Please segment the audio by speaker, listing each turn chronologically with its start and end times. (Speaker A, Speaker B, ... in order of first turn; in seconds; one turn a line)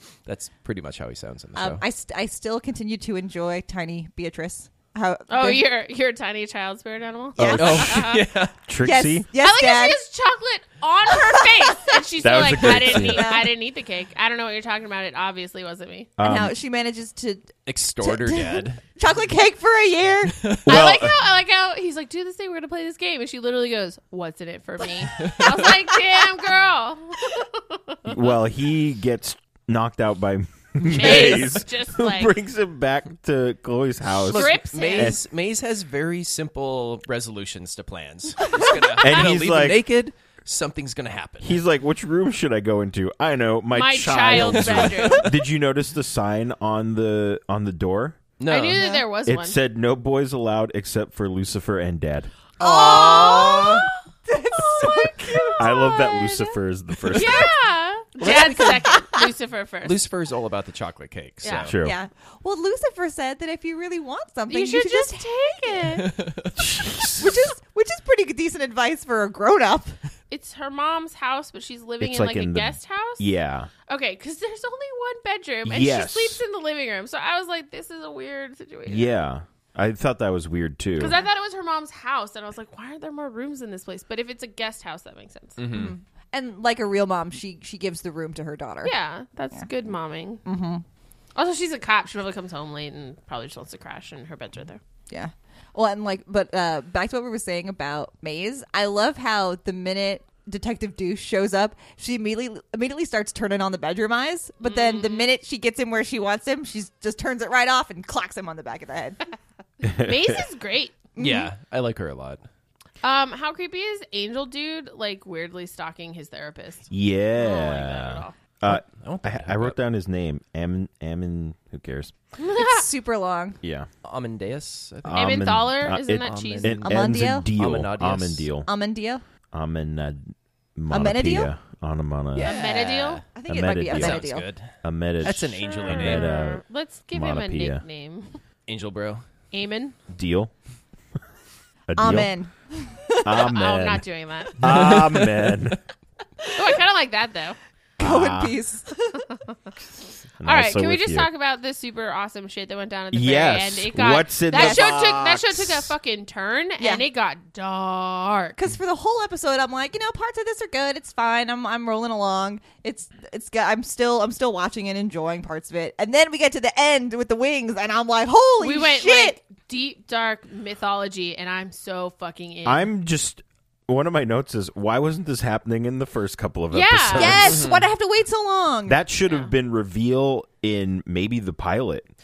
Speaker A: 0.3-1.8
Speaker B: 1.6-5.7
Speaker C: 5.3-8.2
Speaker B: 7.4-8.1
Speaker D: 7.4-8.0
Speaker A: 7.5-8.6
Speaker D: 8.7-9.3
Speaker B: 8.8-10.0
Speaker C: 9.4-16.1
Speaker B: 11.1-13.5
Speaker D: 12.2-13.5
Speaker D: 16.2-16.6
Speaker B: 16.2-20.6
Speaker A: 17.7-18.8
Speaker A: 20.4-20.8
Speaker D: 20.7-21.2
Speaker C: 20.7-28.1
Speaker A: 25.1-25.8
Speaker D: 28.1-35.2
Speaker C: 30.9-32.3
Speaker A: 30.9-31.6
Speaker A: 34.1-41.6
Speaker C: 34.3-35.2
Speaker C: 38.5-39.3
Speaker D: 39.0-39.8
Speaker D: 41.4-48.2
Speaker C: 43.7-45.3
Speaker A: 44.3-45.3
Speaker A: 48.4-48.9
Speaker C: 48.5-49.6
Speaker B: 48.8-49.0
Speaker D: 49.3-52.3
Speaker B: 52.6-56.0
Speaker C: 52.6-54.0
Speaker A: 53.1-53.7
Speaker C: 54.8-56.6
Speaker D: 54.8-57.6
Speaker C: 57.1-60.0
Speaker B: 58.2-59.3
Speaker A: 58.2-58.8
Speaker A: 59.8-61.8
Speaker C: 61.4-61.7
Speaker D: 61.7-62.0
Speaker B: 61.8-66.0
Speaker C: 64.5-66.1
Speaker A: 65.9-66.6
Speaker D: 66.6-67.4
Speaker B: 67.2-70.0
Speaker C: 70.3-73.3
Speaker D: 72.0-73.7
Speaker C: 73.9-79.2
Speaker D: 75.7-76.4
Speaker D: 78.9-81.2
Speaker C: 81.0-85.6
Speaker A: 85.6-86.0
Speaker B: 85.7-88.9
Speaker C: 88.8-90.4
Speaker B: 90.5-90.8
Speaker C: 91.3-94.8
Speaker B: 95.1-109.2
Speaker C: 104.6-105.3
Speaker D: 109.8-110.3
Speaker C: 110.0-111.0
Speaker B: 111.2-111.5
Speaker A: 111.2-112.4
Speaker C: 113.0-118.3
Speaker D: 116.9-122.2
Speaker A: 118.7-119.8
Speaker C: 122.4-122.8
Speaker B: 122.5-123.6
Speaker D: 123.6-123.9
Speaker A: 124.0-125.5
Speaker D: 125.0-128.7
Speaker C: 125.1-126.8
Speaker A: 126.1-128.5
Speaker B: 126.8-127.5
Speaker B: 128.7-129.2
Speaker D: 129.5-132.5
Speaker B: 130.9-131.5
Speaker A: 132.3-133.3
Speaker C: 132.4-133.2
Speaker B: 133.3-134.5
Speaker D: 133.5-134.3
Speaker A: 133.9-136.3
Speaker D: 134.8-137.8
Speaker C: 135.6-138.4
Speaker A: 138.7-139.2
Speaker C: 139.5-140.0
Speaker D: 140.1-140.5
Speaker D: 141.9-142.3
Speaker B: 142.0-143.5
Speaker D: 143.2-144.1
Speaker C: 143.4-145.0
Speaker D: 144.6-145.8
Speaker A: 144.6-145.6
Speaker C: 146.5-147.6
Speaker B: 148.0-149.2
Speaker D: 148.0-148.6
Speaker C: 149.1-149.6
Speaker D: 150.4-151.3
Speaker C: 150.4-158.6
Speaker D: 153.1-155.9
Speaker B: 154.5-155.1
Speaker B: 156.8-157.1
Speaker B: 158.6-169.4
Speaker C: 168.6-172.9
Speaker D: 172.7-177.7
Speaker C: 176.7-177.5
Speaker B: 177.1-179.0
Speaker A: 177.4-177.8
Speaker D: 178.9-182.1
Speaker C: 179.3-179.5